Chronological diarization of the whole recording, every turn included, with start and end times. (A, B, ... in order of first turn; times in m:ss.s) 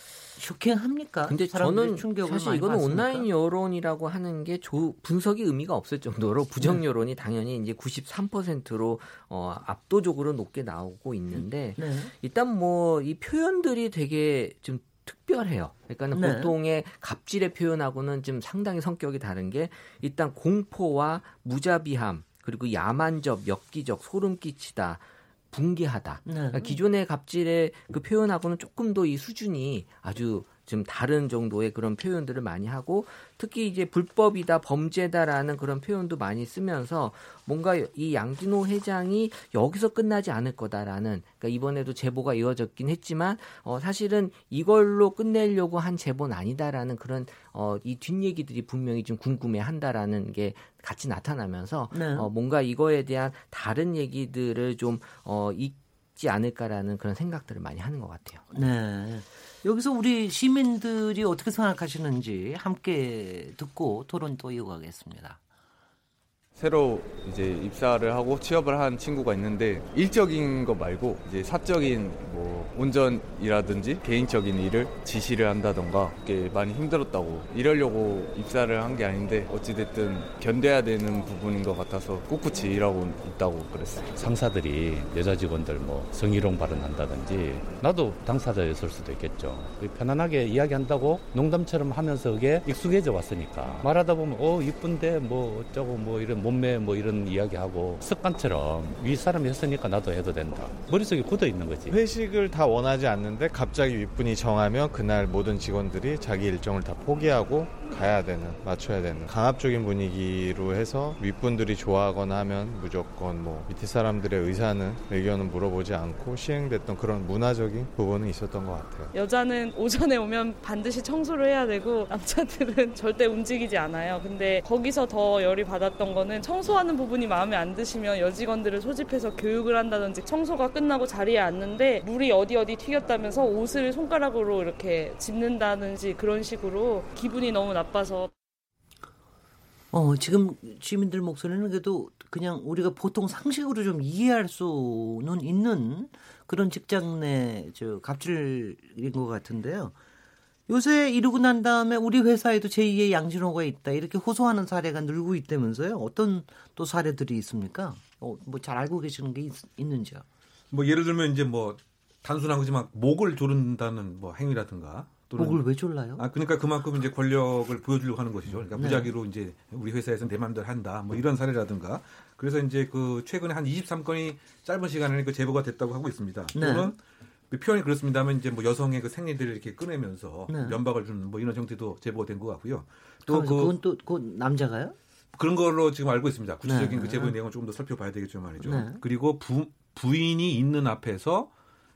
0:00.4-0:03.3 A
0:01.3-0:58.4 B
0:11.8-0:12.1 A
0:16.1-0:16.5 A
0:26.2-0:26.8 A
0:51.9-0:52.3 A
0:58.5-1:05.4 A
1:06.5-1:24.4 C
1:24.2-1:42.0 D
1:41.9-1:59.1 E
1:59.1-2:18.3 F
2:19.9-2:30.0 A
2:30.7-2:40.2 A
2:40.7-2:45.6 G
2:45.4-2:46.2 A
2:46.2-2:57.0 G
2:48.7-2:49.1 A
2:56.5-2:56.9 A
2:57.5-3:03.7 G
3:00.5-3:00.8 A
3:03.3-3:04.9 A
3:05.3-3:11.5 G
3:06.6-3:07.3 A
3:08.6-3:09.0 A